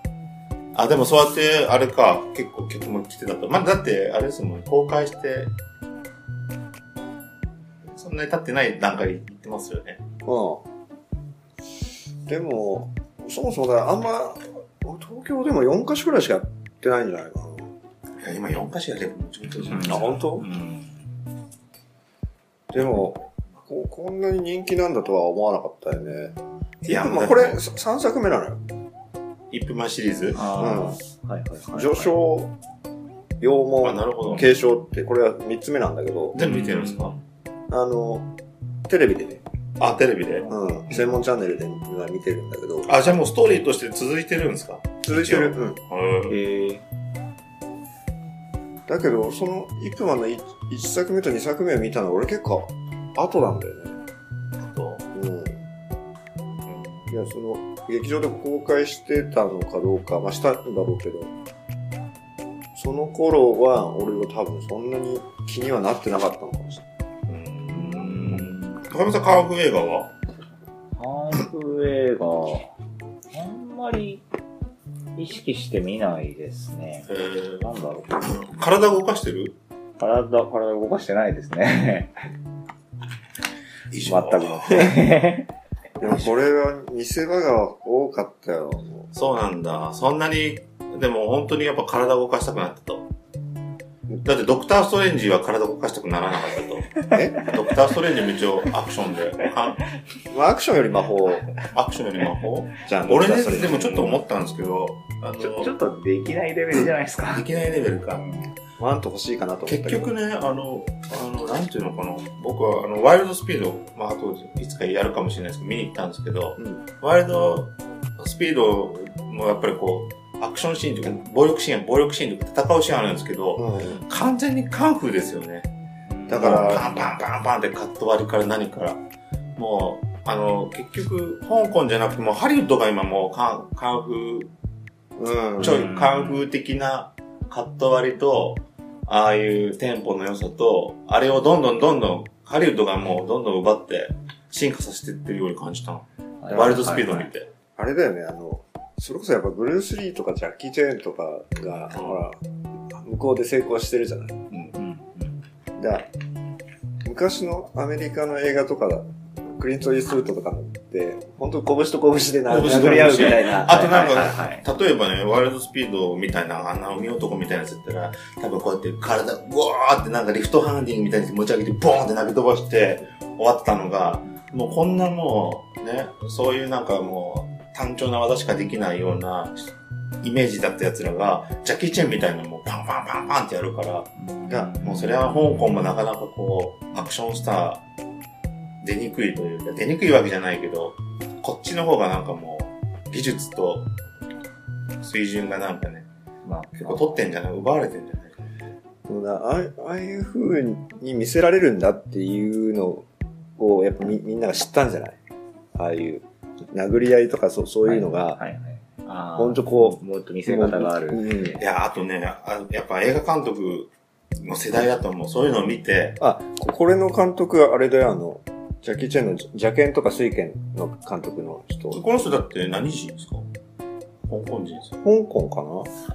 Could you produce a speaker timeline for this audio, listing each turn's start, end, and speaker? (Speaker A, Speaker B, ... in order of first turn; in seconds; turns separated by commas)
Speaker A: 0.7-5.5, Speaker A: 7.9-10.0, Speaker B: 10.2-10.6, Speaker B: 12.3-17.7, Speaker A: 18.2-20.3, Speaker C: 19.7-21.0, Speaker B: 19.8-20.5, Speaker B: 22.7-28.6, Speaker A: 26.9-27.6, Speaker A: 29.5-30.5, Speaker C: 30.3-32.2, Speaker B: 30.6-31.0, Speaker B: 31.7-32.5, Speaker B: 33.4-36.4, Speaker A: 33.8-34.5, Speaker A: 36.3-37.1, Speaker C: 36.4-37.2, Speaker B: 37.7-38.3, Speaker B: 38.9-39.4, Speaker A: 39.8-40.5, Speaker C: 40.4-41.0, Speaker B: 40.5-43.0, Speaker A: 42.9-46.4, Speaker B: 45.0-45.8, Speaker C: 46.3-46.8, Speaker B: 48.9-54.0, Speaker A: 54.6-55.0, Speaker B: 55.1-55.6, Speaker A: 56.7-57.1, Speaker B: 57.1-61.3, Speaker B: 62.8-66.8, Speaker A: 67.3-70.1, Speaker C: 67.7-68.8, Speaker C: 71.0-72.7, Speaker C: 73.3-74.2, Speaker C: 75.2-78.7, Speaker A: 77.1-79.6, Speaker C: 80.0-82.2, Speaker A: 83.9-85.0, Speaker C: 84.1-85.5, Speaker B: 84.2-85.0, Speaker B: 86.0-89.1, Speaker A: 89.1-93.1, Speaker A: 94.2-99.8, Speaker B: 97.1-97.4, Speaker B: 100.3-101.5, Speaker A: 101.7-105.7, Speaker B: 102.9-104.2, Speaker C: 105.4-108.5, Speaker A: 107.3-108.2, Speaker B: 108.8-110.1, Speaker A: 109.7-125.7, Speaker B: 123.6-124.0, Speaker C: 126.1-127.1, Speaker B: 126.3-126.9, Speaker A: 126.3-129.0, Speaker A: 129.6-134.5, Speaker B: 135.2-135.9, Speaker A: 135.6-147.5, Speaker C: 135.6-136.5, Speaker C: 146.4-147.3, Speaker B: 147.8-152.4, Speaker A: 151.9-152.2, Speaker B: 152.9-154.4, Speaker C: 154.8-155.4, Speaker B: 155.8-156.1, Speaker B: 157.1-164.1, Speaker A: 162.5-179.7, Speaker C: 163.1-164.7, Speaker A: 180.2-184.1, Speaker C: 184.2-185.9, Speaker A: 184.8-187.8, Speaker A: 188.8-193.9, Speaker A: 195.0-196.1, Speaker C: 196.4-197.2, Speaker A: 196.8-198.5, Speaker B: 199.1-203.1, Speaker B: 203.6-205.2, Speaker B: 205.8-208.4, Speaker C: 207.8-211.6, Speaker B: 209.4-211.6, Speaker A: 211.6-216.2, Speaker B: 216.2-222.0, Speaker A: 221.9-223.5, Speaker A: 224.3-225.0, Speaker B: 225.0-225.9